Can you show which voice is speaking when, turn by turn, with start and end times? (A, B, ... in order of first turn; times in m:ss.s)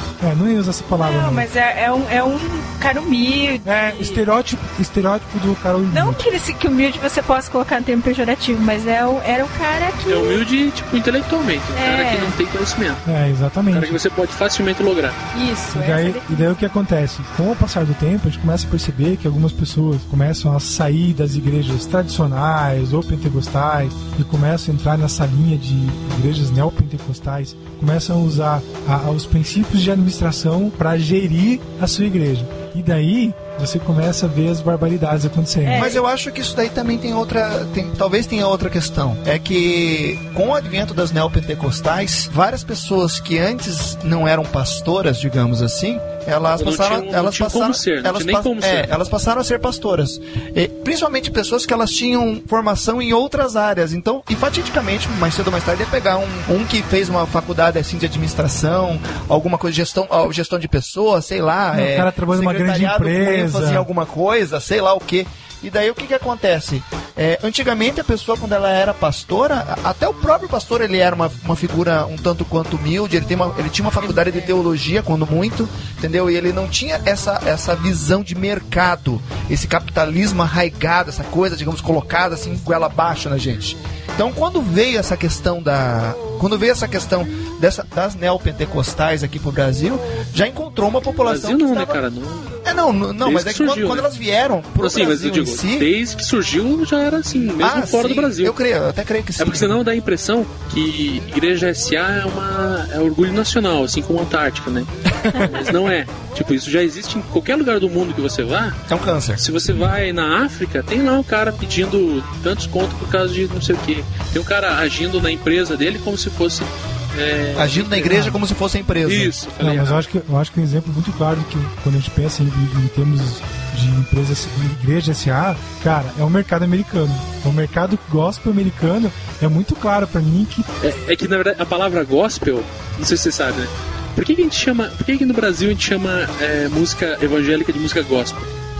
0:00.2-0:01.5 A
0:01.0-0:04.2 B
0:03.6-0:06.2 A
0:05.9-0:10.4 B
0:10.1-0:13.0 C
0:11.7-0:12.4 B
0:13.0-0:14.0 A
0:13.7-0:15.2 C
0:15.3-0:16.6 B
0:15.7-0:35.9 A
0:35.6-0:36.0 B
0:35.7-1:32.0 D
0:46.5-0:49.0 C
1:01.7-1:03.9 A
1:14.0-1:14.5 B
1:31.2-1:32.5 C
1:32.6-1:35.9 D
1:33.2-1:34.1 C
1:34.8-1:38.6 C
1:37.6-1:39.8 D
1:39.4-1:44.9 C
1:45.2-1:45.7 D
1:45.5-1:48.8 C
1:48.9-1:49.4 D
1:49.4-1:58.2 C
1:57.5-1:59.4 D
1:58.1-1:58.4 A
1:59.0-2:00.0 C
1:59.6-2:10.7 A
2:10.8-2:18.5 C